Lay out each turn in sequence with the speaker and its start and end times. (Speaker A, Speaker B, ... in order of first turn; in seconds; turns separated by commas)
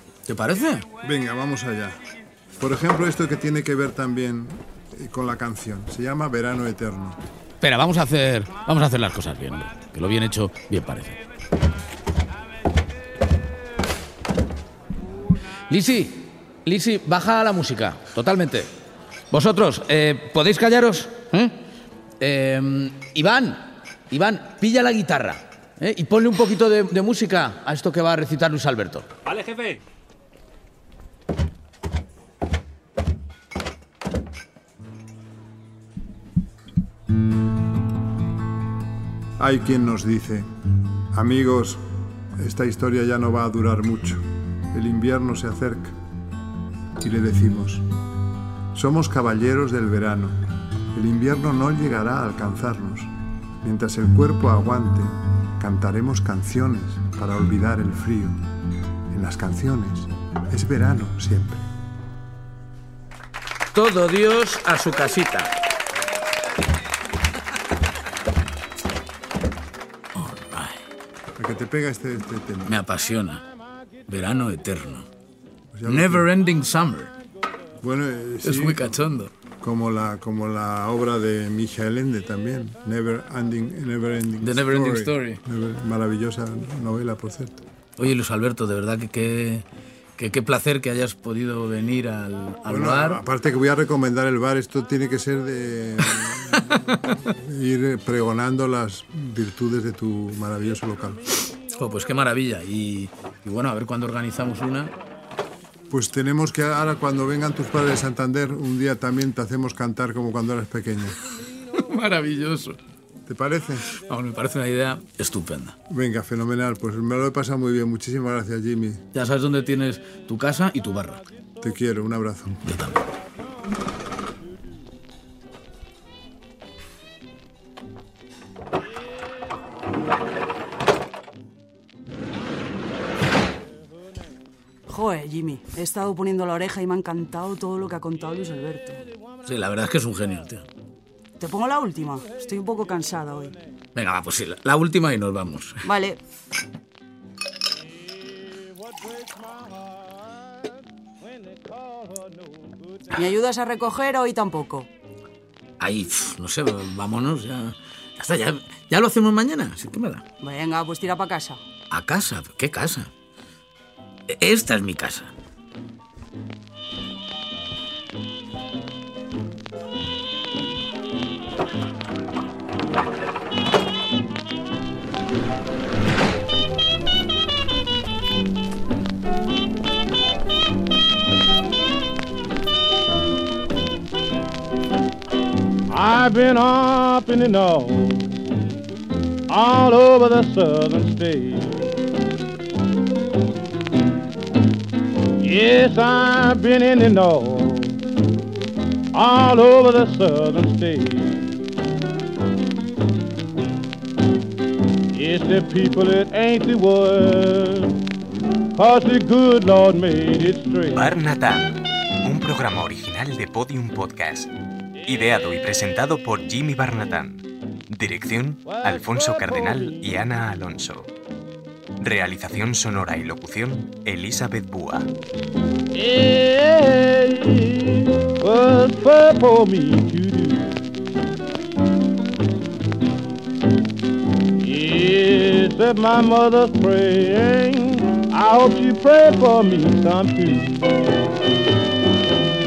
Speaker A: 0.3-0.9, Speaker B: 1.0-2.0, Speaker B: 2.6-7.2, Speaker A: 7.6-11.2, Speaker A: 15.7-18.7, Speaker A: 19.3-21.6, Speaker A: 22.2-29.8, Speaker B: 39.4-40.5, Speaker B: 41.1-46.0, Speaker B: 47.0-47.9, Speaker B: 48.7-58.4, Speaker B: 59.1-61.6, Speaker A: 63.7-65.5, Speaker A: 70.1-70.8, Speaker B: 71.3-72.8, Speaker A: 72.7-73.4, Speaker A: 74.1-75.1, Speaker B: 75.7-76.3, Speaker A: 75.8-77.1, Speaker B: 77.8-79.0, Speaker A: 78.4-79.3, Speaker B: 79.6-87.6, Speaker A: 84.4-85.4, Speaker A: 88.0-89.6, Speaker A: 90.2-93.2, Speaker B: 92.7-101.2, Speaker A: 96.0-97.2, Speaker A: 101.7-104.9, Speaker B: 105.9-111.2, Speaker A: 111.7-112.8, Speaker B: 113.2-113.9, Speaker A: 113.9-115.8, Speaker B: 115.9-119.0, Speaker A: 119.1-121.2, Speaker B: 121.6-122.7, Speaker A: 122.6-123.0, Speaker C: 134.9-139.0, Speaker A: 139.4-140.7, Speaker C: 141.4-143.6, Speaker A: 143.9-145.8, Speaker C: 145.8-146.2, Speaker C: 153.1-154.9, Speaker A: 155.8-160.2, Speaker C: 160.4-161.6, Speaker A: 161.9-163.1, Speaker A: 164.3-165.3, Speaker D: 185.9-188.3, Speaker D: 189.5-191.8, Speaker D: 195.4-198.0, Speaker D: 199.1-201.5, Speaker D: 205.1-207.9, Speaker D: 208.7-211.0, Speaker E: 210.9-214.5, Speaker E: 215.0-221.1, Speaker D: 218.7-220.0, Speaker E: 222.0-225.1, Speaker D: 225.9-230.8, Speaker D: 234.6-240.7